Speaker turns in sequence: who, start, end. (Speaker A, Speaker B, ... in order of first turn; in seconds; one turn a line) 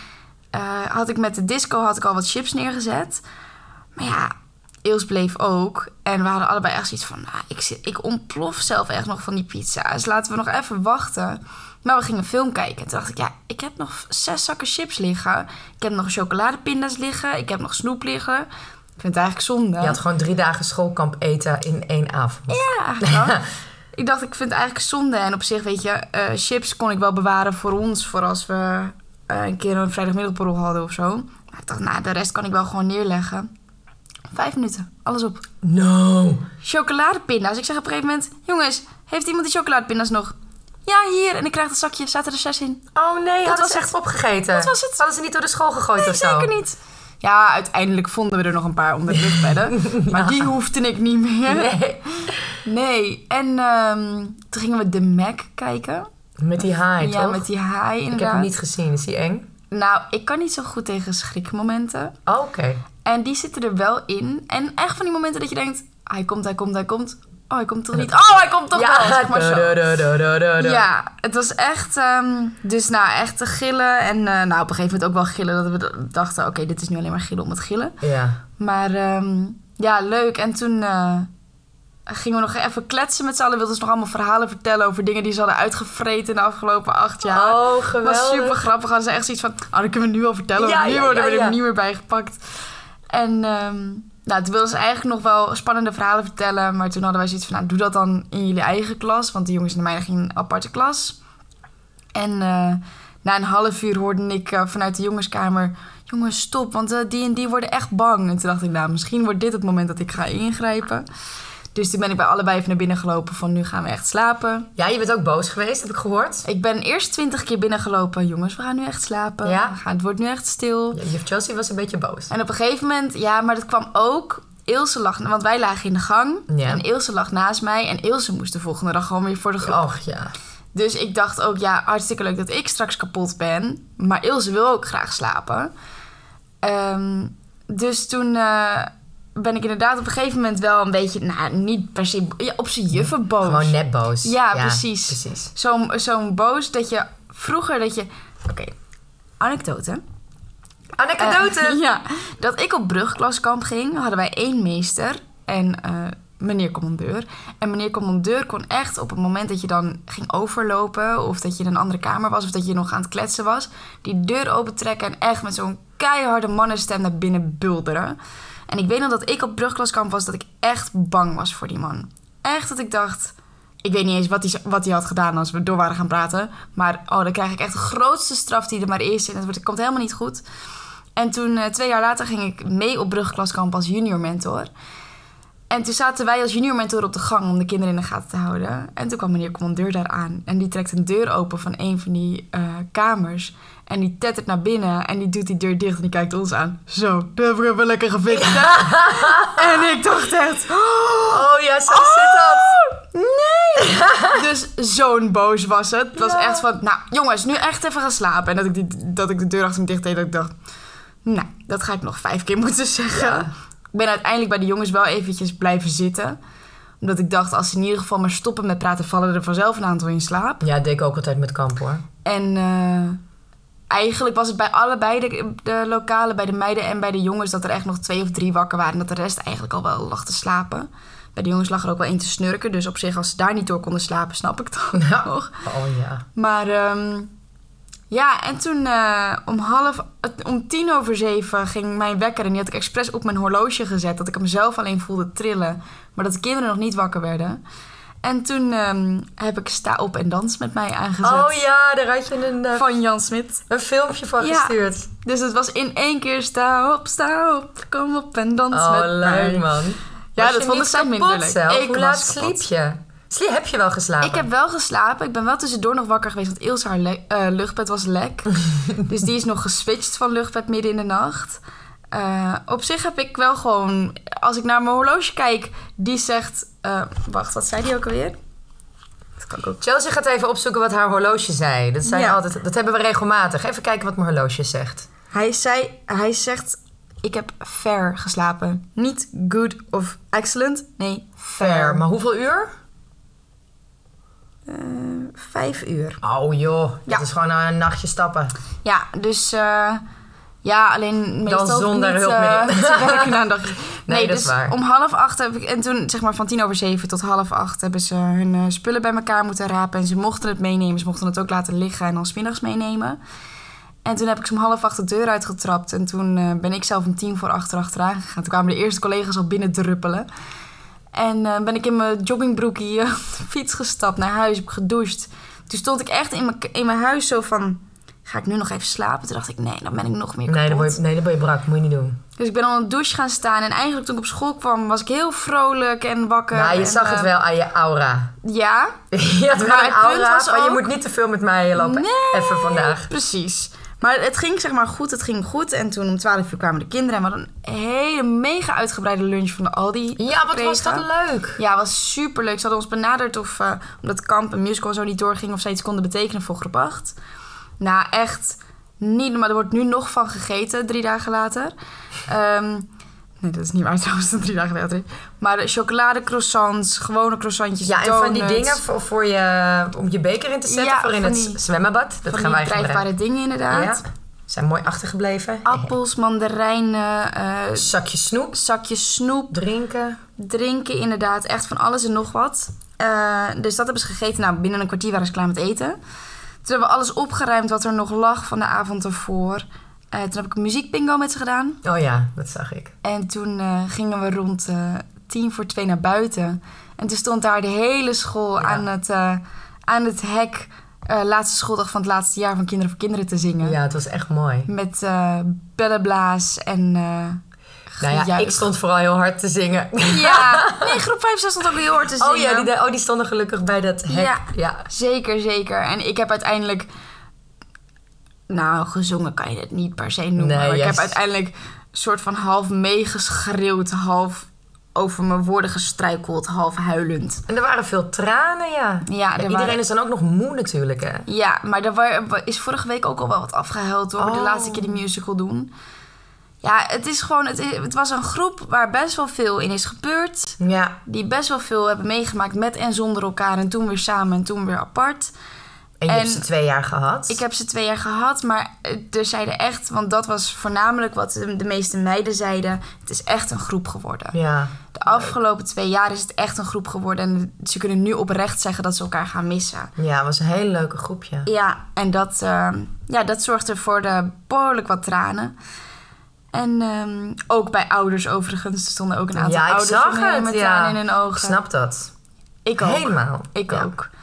Speaker A: 0.5-3.2
Speaker A: 4.0-18.5
Speaker A: 19.0-20.0
Speaker B: 19.8-23.3
Speaker A: 22.5-23.4
Speaker A: 23.9-33.5
Speaker A: 34.3-35.4
Speaker B: 35.6-36.5
Speaker A: 36.6-42.8
Speaker B: 42.9-46.5
Speaker A: 43.4-43.9
Speaker A: 44.5-45.0
Speaker A: 46.0-51.7
Speaker B: 49.1-50.5
Speaker B: 51.5-52.4
Speaker A: 52.2-56.1
Speaker B: 56.4-57.5
Speaker A: 57.0-58.5
Speaker B: 58.1-59.5
Speaker A: 59.7-62.1
Speaker B: 62.3-62.8
Speaker A: 63.0-69.8
Speaker B: 67.9-68.2
Speaker B: 68.7-70.8
Speaker A: 70.6-77.9
Speaker B: 78.0-78.4
Speaker A: 78.6-81.3
Speaker A: 82.1-92.4
Speaker B: 87.2-88.6
Speaker B: 90.5-91.6
Speaker A: 93.1-101.2
Speaker A: 102.1-111.0
Speaker A: 111.7-114.7
Speaker B: 114.8-116.4
Speaker A: 116.5-121.0
Speaker B: 119.4-119.8
Speaker B: 120.9-122.3
Speaker A: 122.3-129.8
Speaker B: 126.5-126.8
Speaker B: 129.6-130.3
Speaker A: 130.7-135.7
Speaker A: 136.6-148.7
Speaker B: 143.1-145.5
Speaker A: 149.4-150.0
Speaker B: 151.0-151.8
Speaker A: 151.2-168.2
Speaker A: 168.7-180.4
Speaker A: 181.2-184.7
Speaker A: 185.7-210.5
Speaker B: 198.3-199.8
Speaker B: 201.3-202.8
Speaker B: 203.9-204.2
Speaker B: 206.2-206.7
Speaker A: 211.2-216.4
Speaker B: 213.1-213.5
Speaker A: 217.0-220.6
Speaker B: 220.6-222.0
Speaker A: 222.2-223.2
Speaker A: 223.9-235.5
Speaker B: 234.9-236.2
Speaker A: 236.3-237.3
Speaker A: 238.1-247.6
Speaker A: 248.2-251.6
Speaker B: 251.2-252.9
Speaker A: 252.7-253.6
Speaker B: 253.7-255.1
Speaker A: 254.4-259.8
Speaker B: 258.7-264.5
Speaker A: 260.3-262.6
Speaker A: 264.2-271.6
Speaker A: 272.1-278.4
Speaker A: 279.4-279.8
Speaker B: 279.8-285.1
Speaker A: 282.0-282.4
Speaker A: 285.3-292.0
Speaker B: 291.6-292.7
Speaker A: 294.7-296.2
Speaker B: 296.2-298.5
Speaker A: 298.8-300.0
Speaker A: 300.6-313.2
Speaker B: 301.4-303.4
Speaker B: 304.1-304.8
Speaker A: 314.0-320.3
Speaker A: 321.1-331.0
Speaker B: 330.5-332.2
Speaker A: 332.4-337.3
Speaker B: 336.5-338.3
Speaker A: 338.4-339.0
Speaker B: 339.1-343.1
Speaker A: 339.6-340.9
Speaker A: 341.8-351.0
Speaker B: 350.2-351.6
Speaker A: 351.6-357.1
Speaker A: 357.8-361.7
Speaker A: 362.3-362.9
Speaker A: 363.4-368.8
Speaker B: 367.8-373.1
Speaker A: 370.7-371.6
Speaker A: 372.3-374.0
Speaker B: 373.7-375.9
Speaker A: 375.6-377.9
Speaker B: 377.8-378.6
Speaker A: 378.5-379.6
Speaker B: 379.5-380.2
Speaker A: 380.4-386.0
Speaker A: 386.6-391.8
Speaker B: 391.8-392.9
Speaker A: 393.0-403.8
Speaker B: 398.6-398.8
Speaker B: 403.6-404.7
Speaker A: 404.7-408.6
Speaker B: 408.0-410.8
Speaker A: 410.1-412.7
Speaker B: 412.2-414.9
Speaker A: 414.1-416.9
Speaker A: 418.5-427.4
Speaker B: 420.4-421.1
Speaker B: 427.5-431.2
Speaker A: 429.1-429.8
Speaker A: 431.2-435.7
Speaker B: 434.2-434.9
Speaker A: 436.6-445.3
Speaker B: 440.6-440.9
Speaker B: 446.0-447.4
Speaker A: 446.1-446.4
Speaker A: 447.3-454.4
Speaker B: 454.3-455.3
Speaker A: 454.9-459.9
Speaker B: 460.0-461.5
Speaker A: 461.4-465.5
Speaker A: 466.5-471.6
Speaker B: 469.4-472.1
Speaker A: 472.6-474.1
Speaker B: 472.8-473.9